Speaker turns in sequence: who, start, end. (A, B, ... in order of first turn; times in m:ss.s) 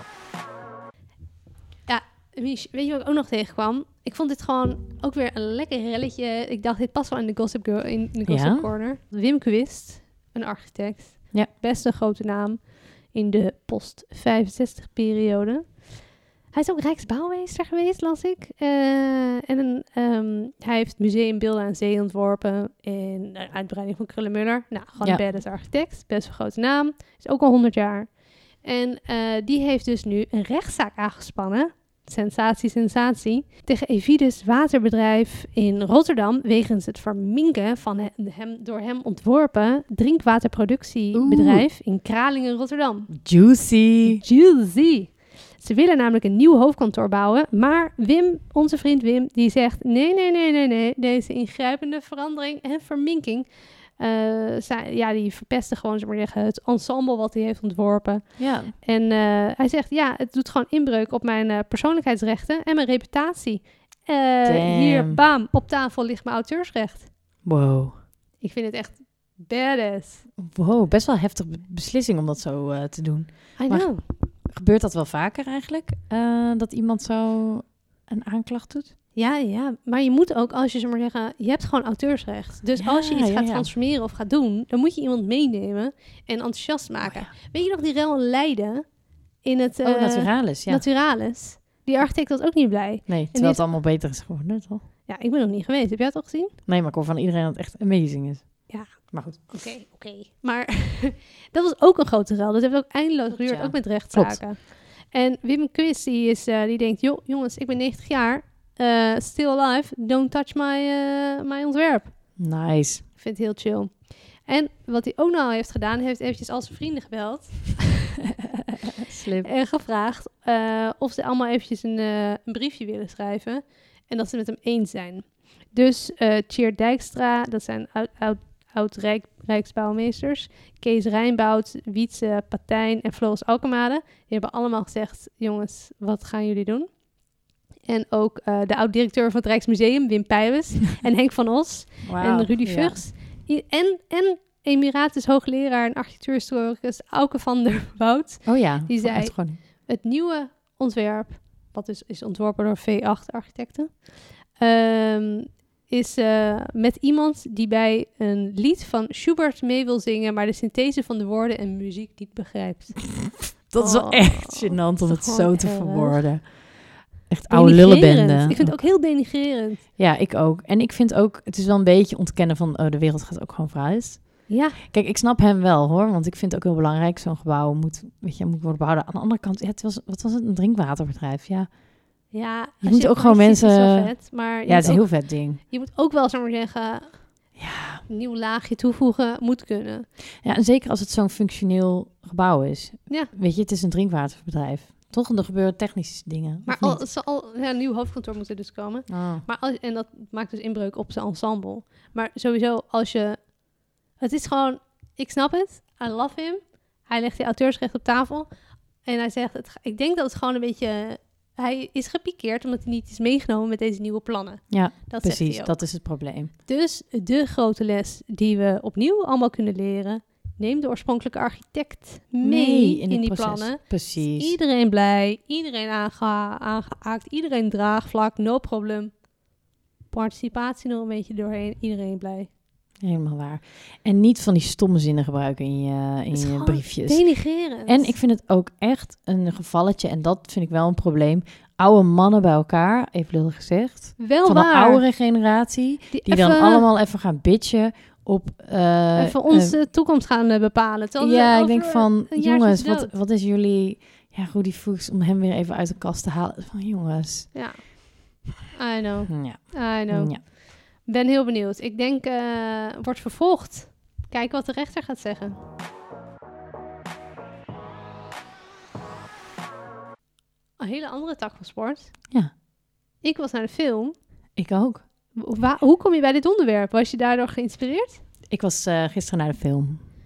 0:01.9-0:43.2 A
0:08.2-0:08.7 B
0:41.1-0:41.6 B
0:43.1-0:44.2 B
0:44.1-1:07.1 A
0:58.4-0:58.7 B
1:04.4-1:05.2 B
1:07.4-1:07.9 B
1:08.4-1:10.2 A
1:10.4-1:18.9 B
1:13.6-1:14.0 A
1:19.1-1:28.9 A
1:22.8-1:23.7 B
1:27.0-1:27.3 B
1:29.4-1:33.6 A
1:29.8-1:30.8 B
1:33.1-1:34.8 B
1:35.1-1:36.6 A
1:36.7-1:39.6 B
1:38.7-1:52.4 A
1:43.3-1:44.4 B
1:52.4-1:53.0 B
1:53.2-1:58.2 A
1:59.0-1:59.5 B
1:59.4-2:17.0 A
2:17.8-2:46.4 A
2:22.0-2:23.0 B
2:28.4-2:29.6 B
2:43.2-2:48.9 B
2:47.5-2:49.8 A
2:50.0-3:01.7 B
2:54.5-2:54.8 A
3:02.3-3:07.4 A
3:02.8-3:05.6 B
3:07.6-3:08.0 B
3:08.1-3:10.1 A
3:10.4-3:17.0 B
3:16.7-3:23.6 A
3:19.1-3:19.4 B
3:24.2-3:28.5 A
3:29.0-3:35.8 A
3:34.7-3:36.5 B
3:36.7-3:49.2 A
3:42.4-3:44.5 B
3:50.1-3:52.5 A
3:53.0-4:09.8 B
3:56.3-3:58.1 A
4:04.2-4:05.0 A
4:06.1-4:06.8 A
4:09.2-4:13.1 A
4:11.2-4:17.5 B
4:17.5-4:18.1 A
4:18.7-4:25.6 A
4:19.3-4:20.4 B
4:30.8-4:32.1 A
4:33.2-4:34.2 A
4:34.6-4:35.0 B
4:35.3-4:38.2 A
4:38.5-4:40.0 B